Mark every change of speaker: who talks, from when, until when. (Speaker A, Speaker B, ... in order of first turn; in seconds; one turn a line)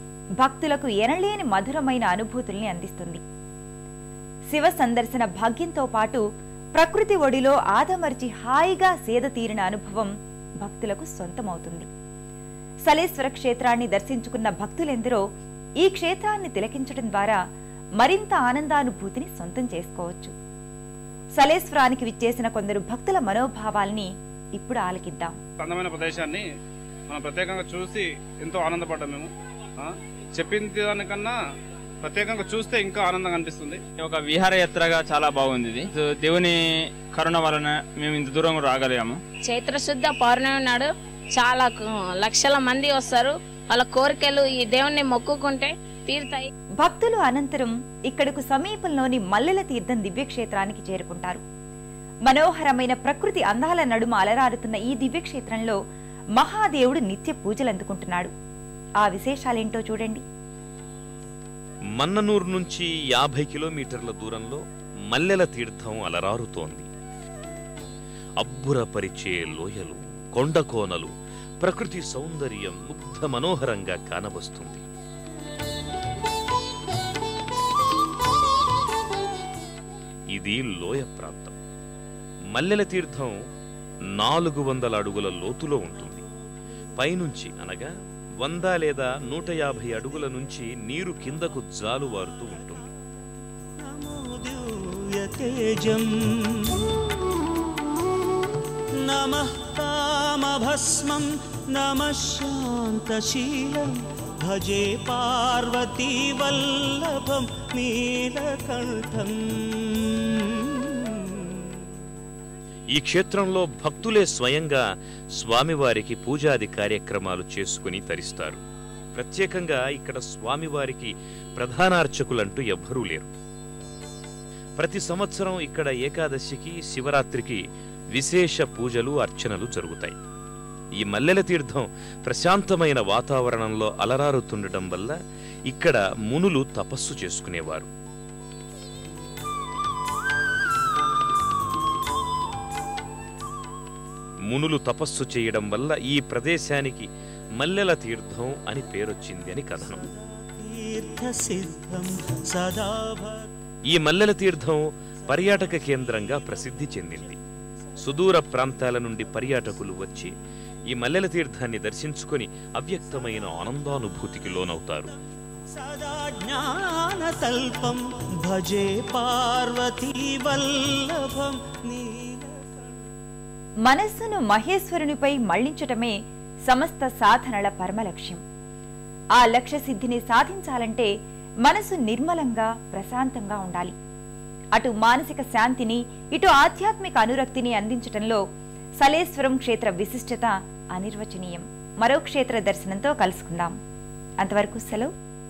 Speaker A: 0.4-3.2
Speaker A: 4.5-6.2
Speaker A: 6.8-10.1
Speaker A: 10.6-11.9
Speaker A: 12.9-15.2
Speaker A: 15.8-17.4
Speaker A: 18.0-20.3
Speaker A: 21.4-25.4
Speaker B: 25.6-26.4
Speaker B: 27.1-29.3
Speaker B: 29.8-31.3
Speaker B: 32.0-33.8
Speaker C: 34.0-39.2
Speaker D: 39.5-46.5
Speaker A: 46.8-51.4
Speaker A: 52.3-55.8
Speaker A: 56.4-58.3
Speaker A: 59.0-60.2
Speaker E: 62.0-66.9
Speaker E: 68.4-74.8
Speaker E: 80.3-81.5
Speaker E: 82.5-83.4
Speaker E: 84.1-86.2
Speaker E: 87.0-87.9
Speaker E: 88.4-92.8
Speaker F: 93.8-96.9
Speaker F: 99.0-111.6
Speaker E: 112.9-114.8
Speaker E: 115.3-118.6
Speaker E: 119.1-123.3
Speaker E: 124.8-130.2
Speaker E: 131.0-135.1
Speaker E: 135.7-137.9
Speaker E: 144.5-150.0
Speaker F: 150.2-153.5
Speaker E: 153.9-157.4
Speaker E: 158.0-160.3
Speaker E: 160.9-165.1
Speaker F: 165.7-173.0
Speaker A: 173.9-176.1
Speaker A: 176.7-178.4
Speaker A: 179.4-181.1
Speaker A: 181.7-183.9
Speaker A: 184.8-188.4
Speaker A: 189.0-193.8
Speaker A: 194.4-195.1